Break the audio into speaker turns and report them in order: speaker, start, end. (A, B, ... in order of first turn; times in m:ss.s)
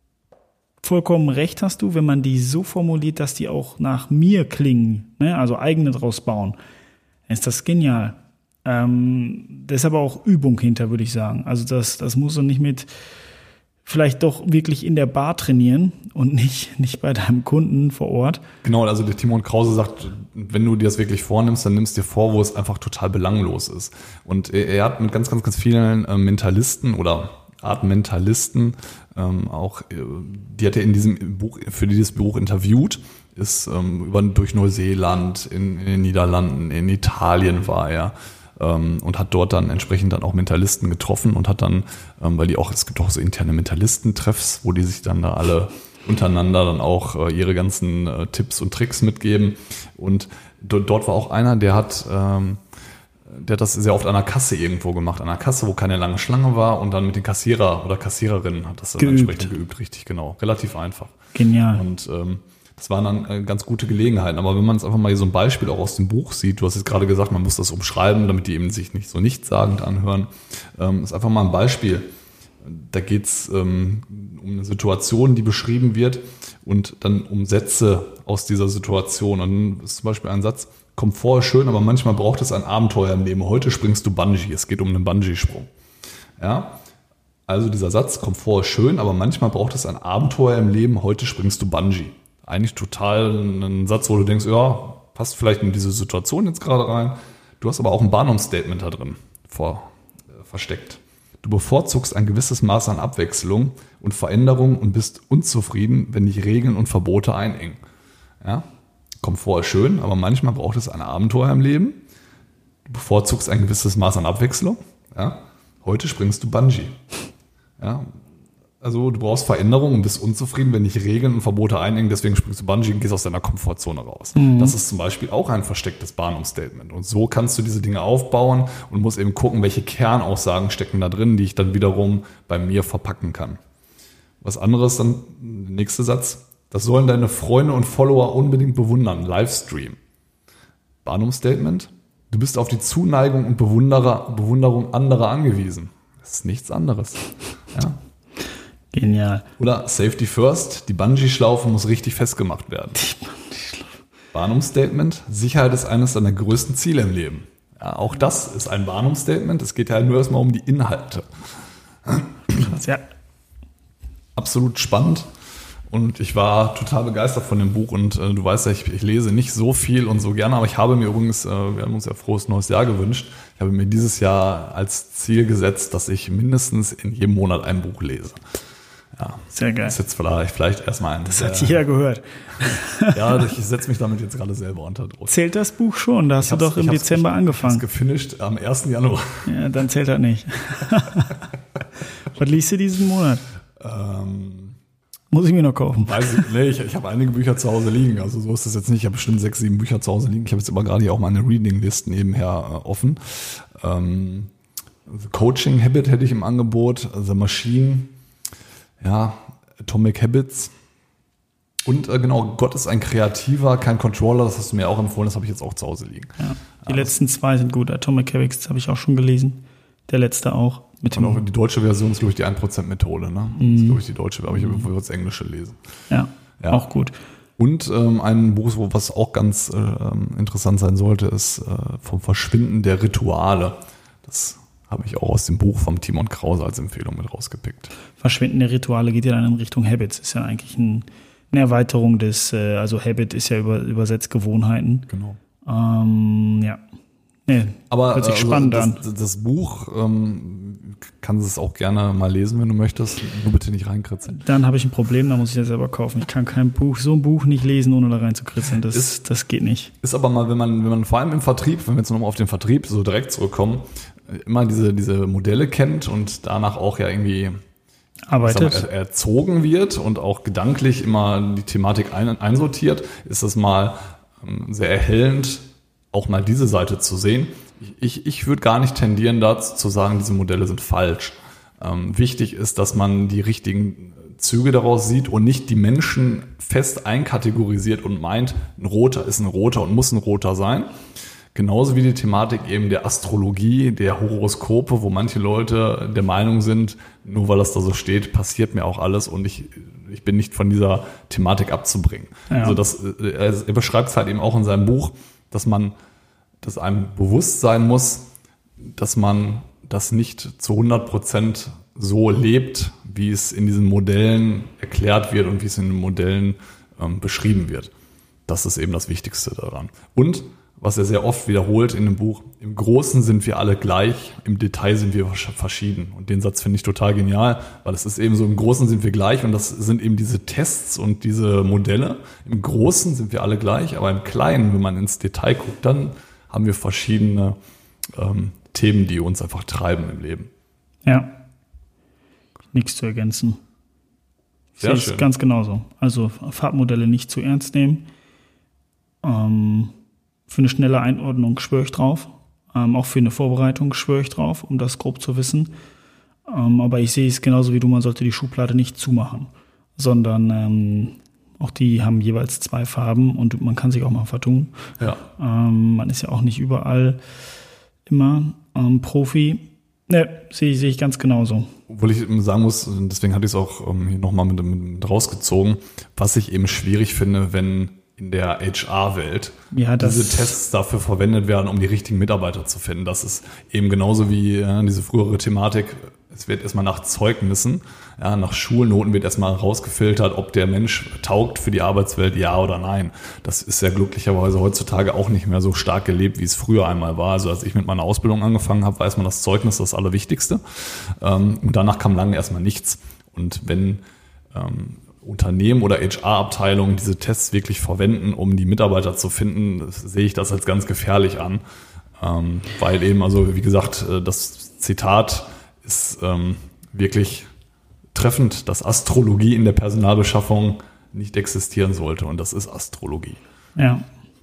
0:00.8-0:06.6 A
0:07.3-0:12.9 A
0:13.8-0:18.4 A
0:18.6-0:52.6 B
0:53.3-1:01.1 B
0:59.0-0:59.5 A
1:01.3-1:01.8 A
1:01.7-1:12.1 B
1:12.6-1:25.7 B
1:26.4-1:26.8 B
1:27.5-1:47.8 B
1:48.4-1:48.7 B
1:49.2-1:52.0 B
1:52.8-1:57.0 B
1:57.8-1:58.2 B
1:58.8-2:13.6 B
2:04.3-2:04.7 A
2:14.4-2:20.0 B
2:21.0-2:28.0 B
2:28.9-2:29.4 A
2:29.6-2:33.0 B
2:33.0-2:33.9 A
2:34.3-2:41.3 B
2:42.0-2:42.7 B
2:42.5-2:43.0 A
2:44.4-2:45.3 B
2:45.9-2:58.4 B
2:59.1-3:01.8 B
2:59.5-3:00.0 A
3:01.2-3:03.2 A
3:03.1-3:05.3 B
3:05.3-3:07.8 A
3:06.4-3:09.5 B
3:09.4-3:11.4 A
3:12.3-3:13.4 A
3:13.8-3:14.8 B
3:15.3-3:16.5 A
3:16.0-3:24.5 B
3:25.1-3:28.1 B
3:29.0-3:30.7 B
3:31.8-3:37.1 B
3:36.4-3:41.4 A
3:41.1-3:45.8 B
3:43.6-3:44.0 A
3:46.1-3:47.2 A
3:47.6-3:57.9 B
3:58.2-4:05.1 A
4:05.1-4:05.4 B
4:05.6-4:06.8 A
4:07.5-4:09.0 A
4:07.9-4:14.4 B
4:14.3-4:19.9 A
4:20.0-4:27.6 B
4:28.3-4:28.9 A
4:28.4-4:50.9 B
4:51.5-5:05.9 B
5:02.5-5:02.8 A
5:06.6-5:17.9 B
5:18.5-5:37.6 B
5:38.1-5:40.5 B
5:41.0-5:41.3 A
5:42.7-5:43.6 A
5:44.8-5:48.1 A
5:44.8-5:45.3 B
5:49.2-5:49.9 A
5:50.5-5:55.7 A
5:56.4-6:07.2 A
6:08.1-6:11.7 A
6:11.9-6:44.0 B
6:19.7-6:20.5 A
6:44.5-6:51.6 B
6:52.2-6:57.5 B
6:58.1-7:03.4 B
7:03.8-7:04.0 A